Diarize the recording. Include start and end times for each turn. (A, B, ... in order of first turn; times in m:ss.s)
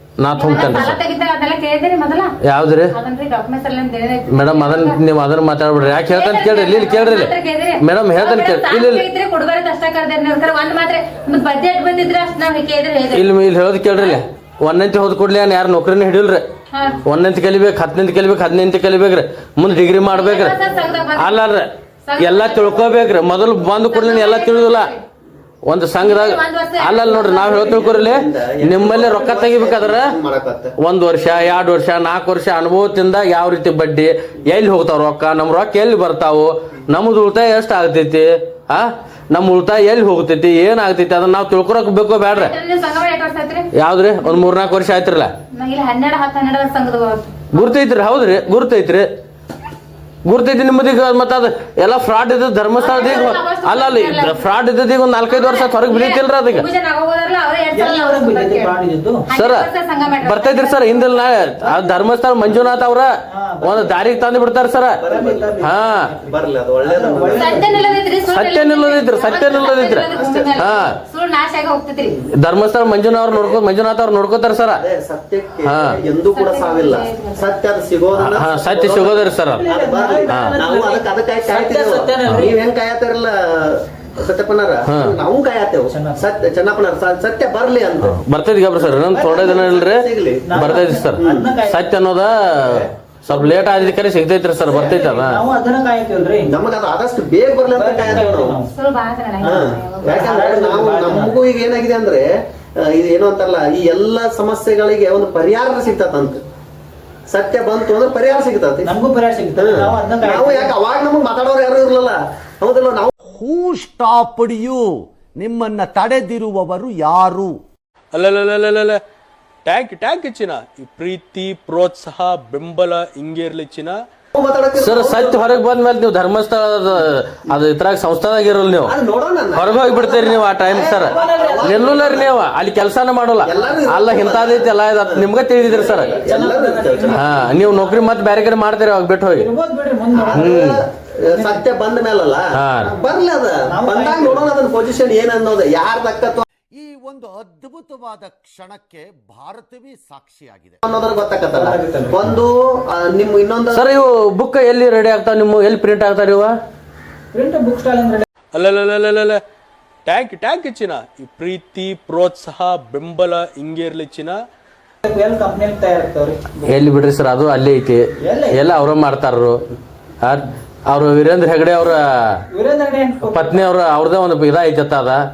0:00.2-0:01.0 A
0:00.4-0:02.3 B
0:02.4-0:02.9 A
0:02.9-0:05.0 B
0:04.3-0:09.0 A
0:05.9-0:13.3 B
0:13.1-0:16.4 A
0:14.0-0:14.2 B
0:16.7-0:17.0 B
0:17.0-0:20.6 A
0:20.0-0:21.4 B
0:21.2-0:21.7 A
0:22.1-0:25.0 B
0:22.2-0:24.9 A
0:25.6-0:30.1 A
0:26.0-0:27.9 B
0:27.5-0:30.7 C
0:30.8-0:42.5 A
0:42.3-0:43.7 B
0:43.7-0:45.3 A
0:45.5-0:47.7 B
0:47.5-0:49.0 A
0:50.2-0:56.6 A
0:52.8-0:54.5 B
0:55.3-0:58.8 B
0:57.7-0:59.2 D
0:59.3-1:01.3 B
0:59.3-0:59.7 A
1:00.2-1:03.1 A
1:01.6-1:02.0 D
1:03.3-1:04.3 D
1:03.6-1:05.0 A
1:05.0-1:05.7 C
1:05.1-1:08.0 D
1:05.6-1:06.0 A
1:06.3-1:07.8 C
1:07.3-1:12.2 B
1:08.3-1:10.9 A
1:10.1-1:10.7 C
1:12.0-1:12.3 C
1:12.4-1:14.8 A
1:13.3-1:13.6 C
1:14.8-1:28.2 C
1:15.6-1:16.0 A
1:16.2-1:17.5 B
1:18.2-1:19.6 A
1:19.6-1:22.6 D
1:20.3-1:20.6 A
1:24.9-1:25.1 A
1:25.9-1:26.2 D
1:28.1-1:35.4 A
1:28.7-1:31.5 C
1:30.5-1:31.9 D
1:32.3-1:33.9 C
1:34.7-1:36.5 D
1:34.7-1:35.0 C
1:36.5-1:38.6 C
1:37.7-1:38.7 D
1:38.7-1:40.2 B
1:39.4-1:42.2 C
1:40.1-1:41.4 D
1:42.8-1:46.4 C
1:47.3-1:48.9 C
1:48.8-1:50.7 D
1:49.6-1:54.8 C
1:53.2-1:53.7 E
1:54.5-1:54.8 E
1:55.4-1:57.5 C
1:58.1-1:59.0 F
1:59.6-2:04.0 F
2:04.3-2:05.5 C
2:04.8-2:08.9 A
2:08.8-2:12.4 C
2:09.5-2:16.1 A
2:10.9-2:12.2 D
2:13.4-2:17.3 C
2:15.7-2:18.1 D
2:17.1-2:19.5 A
2:19.3-2:20.6 D
2:20.1-2:26.4 C
2:20.3-2:20.7 A
2:21.2-2:21.6 D
2:22.5-2:22.9 A
2:23.7-2:24.5 D
2:26.7-2:30.7 E
2:30.8-2:33.8 C
2:31.5-2:32.3 D
2:33.7-2:36.5 A
2:37.3-2:38.2 D
2:38.5-2:39.4 F
2:40.0-2:44.4 F
2:45.0-2:46.8 D
2:46.7-2:48.0 A
2:48.2-2:48.6 D
2:48.5-2:49.6 A
2:50.2-2:52.3 A
2:52.5-2:53.6 D
2:53.2-2:55.2 A